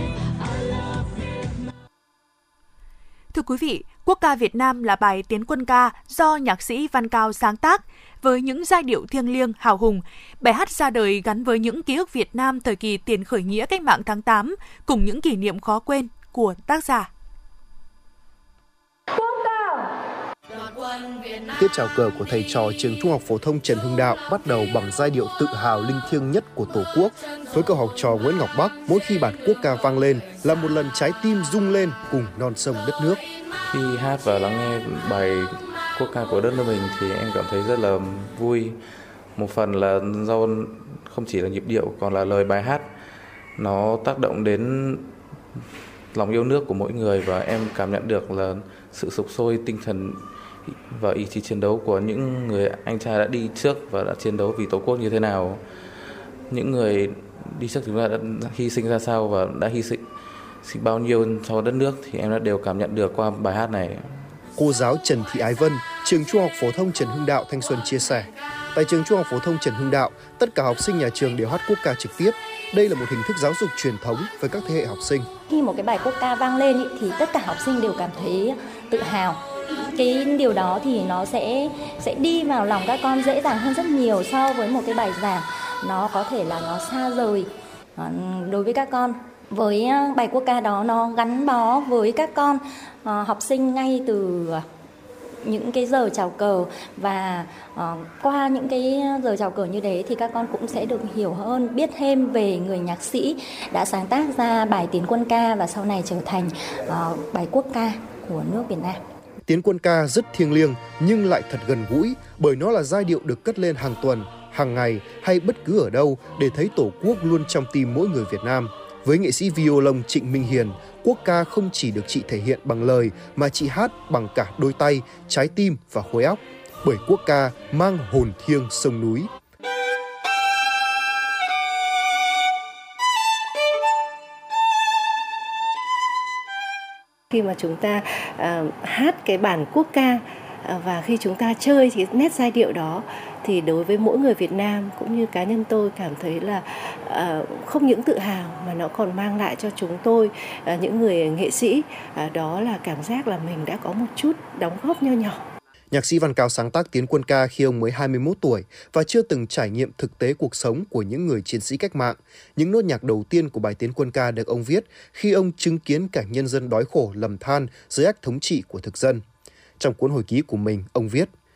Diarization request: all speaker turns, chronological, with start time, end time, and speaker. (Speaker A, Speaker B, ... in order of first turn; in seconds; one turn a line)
Speaker A: 3.3-17.1
Speaker B: 21.5-33.2
Speaker C: 33.7-38.8
Speaker C: 39.3-42.9
Speaker C: 43.6-45.1
Speaker C: 46.1-55.6
Speaker C: 56.5-60.0
Speaker C: 60.6-64.1
Speaker B: 64.5-75.3
Speaker D: 75.5-94.7
Speaker D: 95.4-109.0
Speaker B: 109.5-129.3
Speaker E: 137.3-155.4
Speaker B: 155.9-169.2
Speaker B: 169.8-171.3